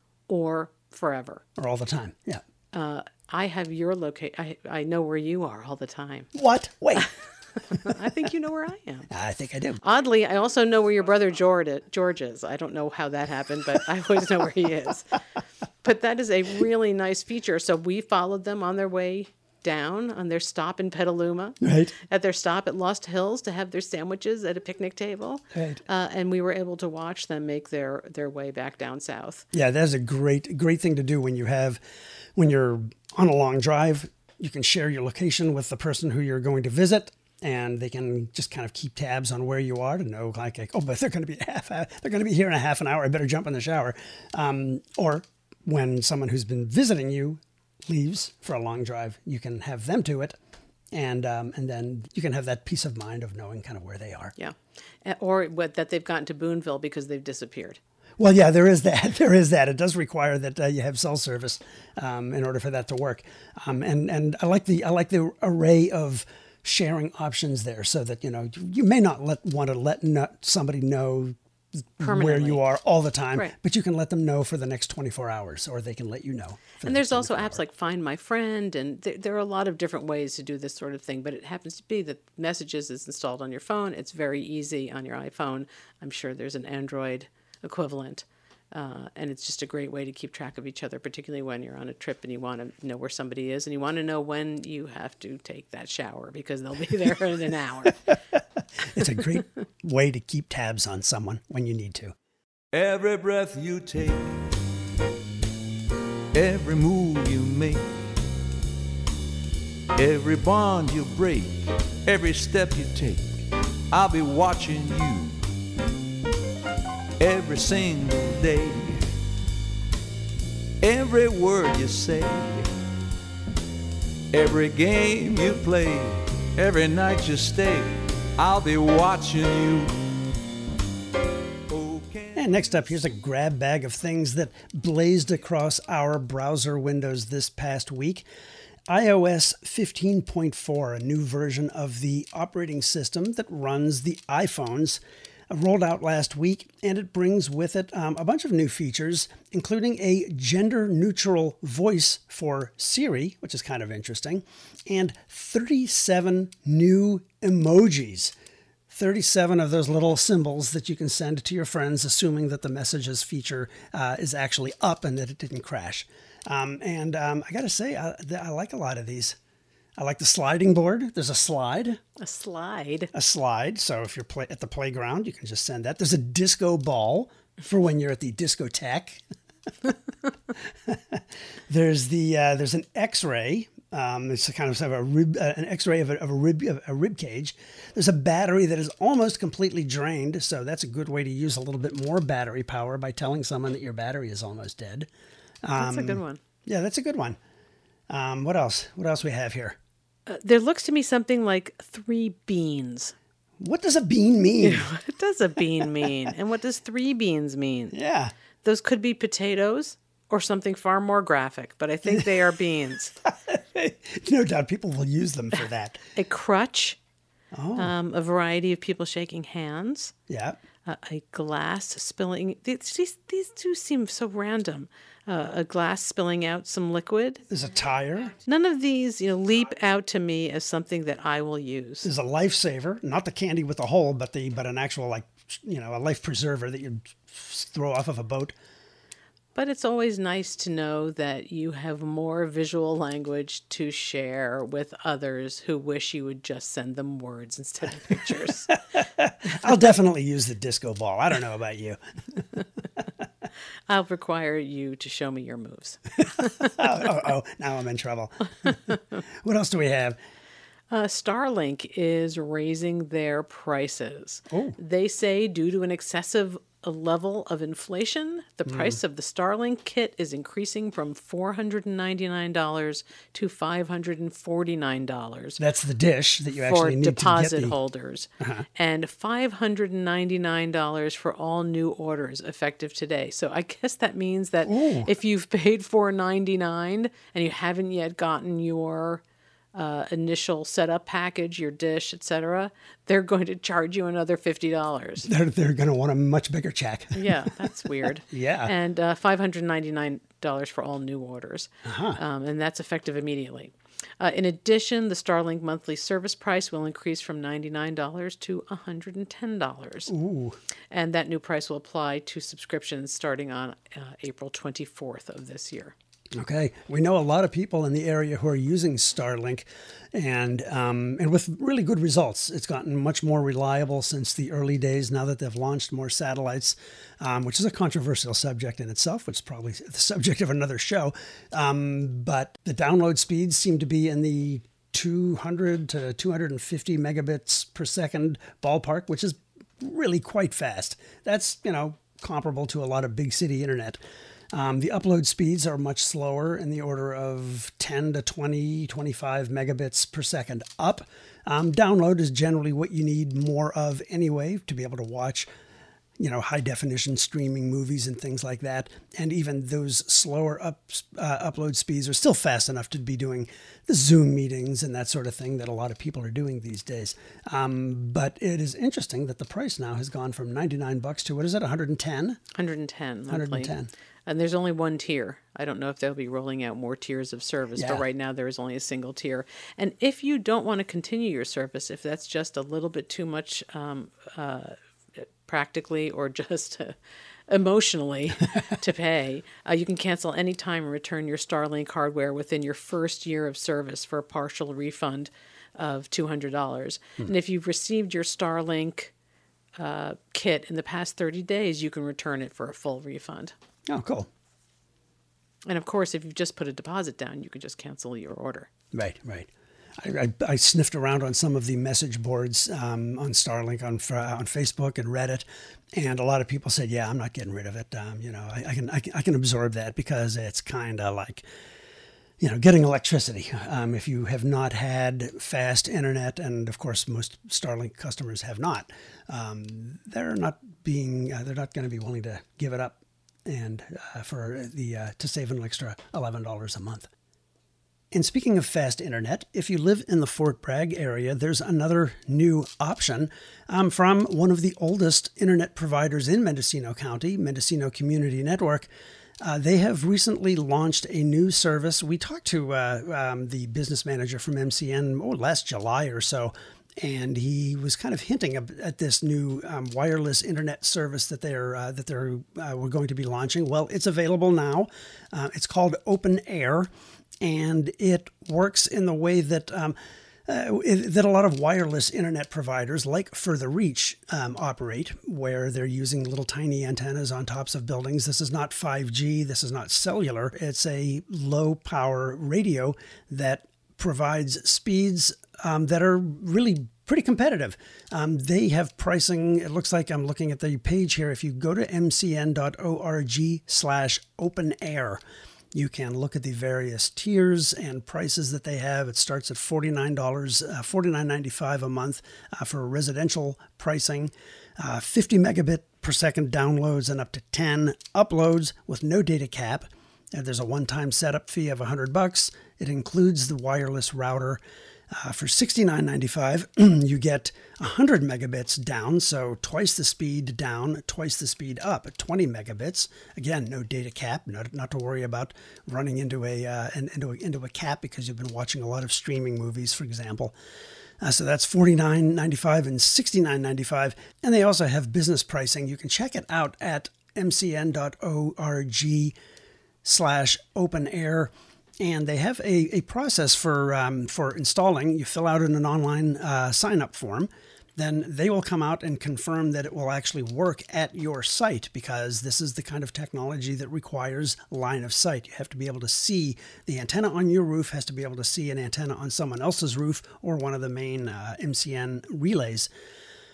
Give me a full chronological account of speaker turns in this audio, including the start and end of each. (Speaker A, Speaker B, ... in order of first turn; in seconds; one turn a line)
Speaker A: 0.3-1.4
Speaker B: 1.6-2.4
Speaker A: 2.7-6.3
Speaker B: 6.3-7.1
Speaker A: 7.0-9.1
Speaker B: 9.1-9.8
Speaker A: 9.8-15.2
Speaker A: 15.8-29.4
Speaker B: 21.6-21.9
Speaker B: 25.5-25.8
Speaker B: 29.5-31.8
Speaker B: 32.3-50.4
Speaker B: 50.9-54.3
Speaker A: 54.4-57.8
Speaker B: 58.2-77.6
Speaker A: 72.0-72.6
Speaker A: 76.8-98.0
Speaker B: 98.8-102.1
Speaker C: 102.7-104.5
Speaker C: 106.3-107.9
Speaker C: 110.0-115.4
Speaker C: 117.2-119.1
Speaker C: 120.8-122.7
Speaker C: 124.3-129.9
Speaker C: 131.7-132.4
Speaker B: 132.3-138.2
Speaker B: 138.9-158.3
Speaker B: 158.9-169.4
Speaker B: 170.0-172.0
Speaker A: 172.2-173.1
Speaker B: 173.1-179.2
Speaker B: 180.7-195.1
Speaker B: 195.6-197.4
Speaker A: 195.8-196.4
Speaker B: 198.1-199.8
Speaker A: 200.3-203.1
Speaker B: 203.6-204.9
Speaker A: 204.6-207.9
Speaker B: 207.9-208.3
Speaker A: 208.6-213.1
Speaker B: 213.2-216.0
Speaker A: 216.2-217.0
Speaker B: 217.5-217.9
Speaker A: 217.8-220.1
Speaker B: 220.3-220.6
Speaker A: 220.8-227.4
Speaker B: 227.5-228.3
Speaker A: 228.4-232.1
Speaker B: 232.0-238.5
Speaker A: 239.5-248.7
Speaker B: 248.7-252.4
Speaker A: 253.9-256.9
Speaker B: 256.6-260.2
Speaker A: 260.9-275.6
Speaker B: 264.5-264.8
Speaker B: 268.7-269.0
Speaker B: 275.6-277.8
Speaker A: 276.6-289.2
Speaker B: 278.4-278.6
Speaker B: 284.6-285.1
Speaker A: 289.7-295.3
Speaker B: 295.2-297.7
Speaker A: 297.1-310.1
Speaker B: 298.2-298.7
Speaker B: 301.8-302.2
Speaker B: 310.1-310.6
Speaker A: 310.9-315.9
Speaker B: 316.3-344.0
Speaker B: 344.5-355.5
Speaker B: 356.2-372.4
Speaker A: 372.5-373.7
Speaker B: 373.3-373.9
Speaker A: 374.2-386.9
Speaker B: 377.8-378.0
Speaker A: 387.5-399.1
Speaker A: 399.8-403.5
Speaker B: 403.9-404.3
Speaker A: 405.6-408.7
Speaker B: 408.9-421.4
Speaker B: 422.4-437.1
Speaker B: 438.1-448.9
Speaker B: 449.4-466.9
Speaker B: 467.4-495.2
Speaker B: 495.7-514.6
Speaker B: 515.1-530.5
Speaker B: 531.2-539.3
Speaker B: 540.0-562.9